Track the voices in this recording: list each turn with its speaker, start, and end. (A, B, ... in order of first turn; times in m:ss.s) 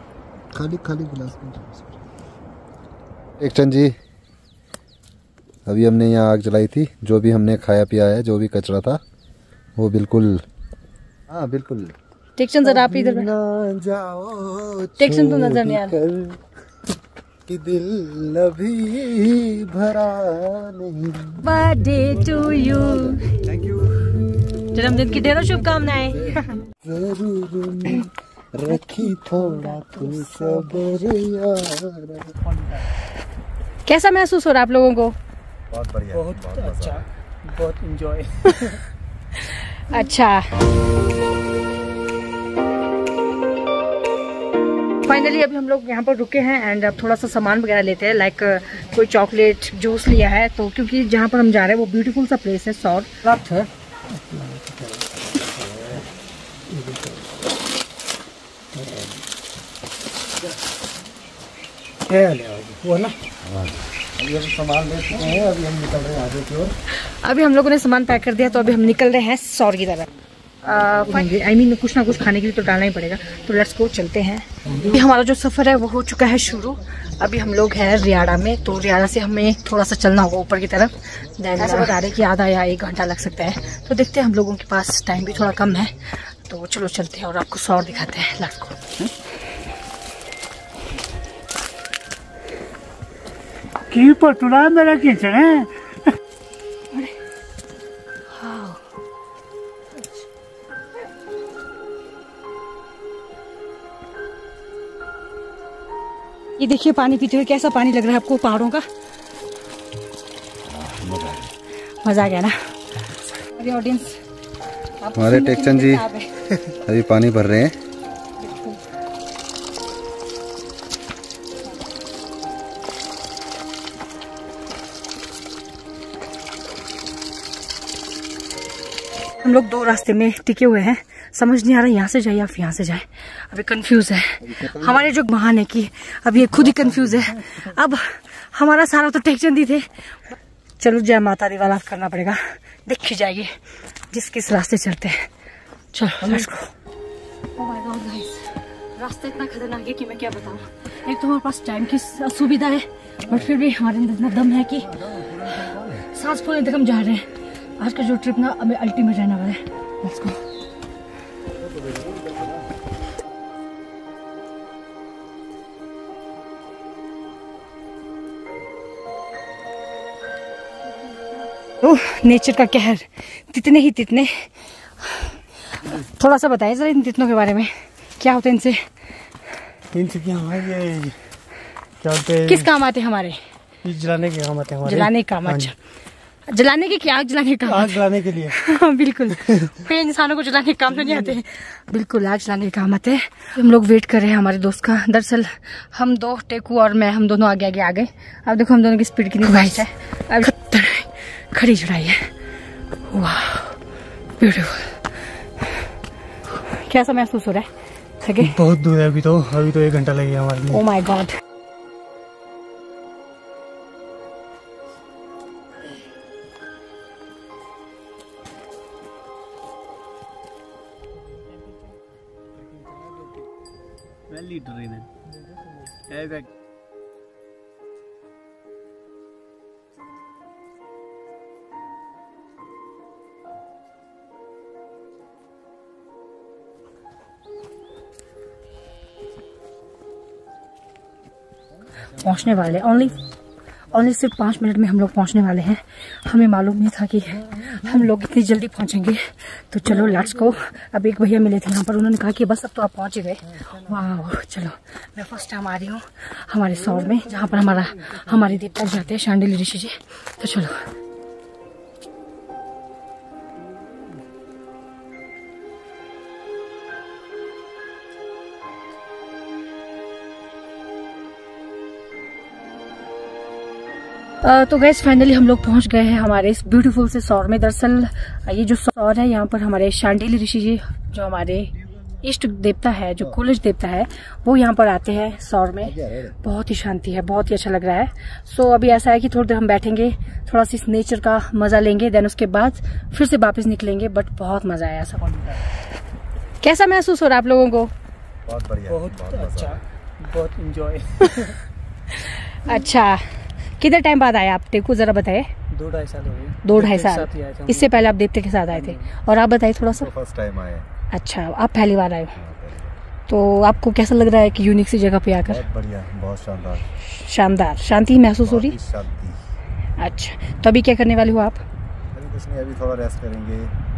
0:00.5-0:02.0 A
0:03.4-0:03.9 A
0:05.6-0:09.0 A
0:09.8-0:10.4 A
0:11.3-0:11.9 A
0:12.4-0:13.3 B
0:12.6-0:16.4 A
0:15.0-0:16.0 B
0:17.5-0:21.5 A
0:21.4-0:23.4 B
0:22.7-0:24.0 A
0:24.7-0:26.5 B
0:26.2-0:32.4 A
0:28.9-0:30.8 B
0:33.8-0:35.1 B
0:35.7-0:37.0 A
0:36.1-0:38.8 C
0:39.4-0:40.5 B
0:45.0-0:53.7 B
0:54.1-0:55.0 C
0:55.6-0:56.0 C
0:56.7-0:57.2 C
0:58.7-0:59.2 C
1:02.1-1:03.2 C
1:03.4-1:06.7 A
1:06.9-1:10.1 B
1:10.6-1:28.8 B
1:33.9-1:35.8 C
1:38.3-1:38.8 B
1:46.6-1:48.8 B
1:50.6-1:51.5 A
1:52.0-1:52.6 B
1:53.3-1:54.2 B
1:55.0-1:56.3 B
1:55.1-1:57.7 A
1:58.4-1:58.8 B
2:09.4-2:23.5 B
2:14.4-2:15.0 A
2:24.1-2:25.3 B
2:25.9-2:26.7 B
2:27.6-2:34.9 B
2:34.8-2:36.1 A
2:36.1-2:37.2 B
2:37.8-2:40.4 B
2:41.6-2:42.7 A
2:51.8-2:54.5 B
2:55.0-2:58.8 B
2:59.9-3:01.2 C
3:02.0-3:02.7 C
3:02.5-3:03.4 B
3:03.8-3:05.7 C
3:04.8-3:05.7 B
3:06.5-3:22.3 B
3:07.6-3:08.6 C
3:23.0-3:23.8 B
3:24.4-3:25.7 B
3:26.5-3:27.7 B
3:28.2-3:28.6 B
3:28.4-3:30.8 C
3:30.7-3:31.4 B
3:44.3-3:45.1 C
3:46.1-3:46.4 C
4:02.1-4:03.2 B
4:03.9-4:20.8 B
4:34.4-4:55.6 B
4:45.8-4:46.4 A
4:56.6-4:57.9 B
4:58.4-4:59.8 A
4:58.9-5:01.6 C
5:02.1-5:03.2 B
5:03.8-5:05.5 B
5:05.7-5:08.1 C
5:06.6-5:10.1 B
5:08.7-5:09.0 C
5:09.9-5:10.9 A
5:11.1-5:12.3 B
5:12.4-5:13.0 A
5:13.3-5:15.6 B
5:15.4-5:16.8 A
5:17.1-5:18.8 B
5:18.4-5:19.4 A
5:20.0-5:21.6 B
5:22.1-5:23.7 A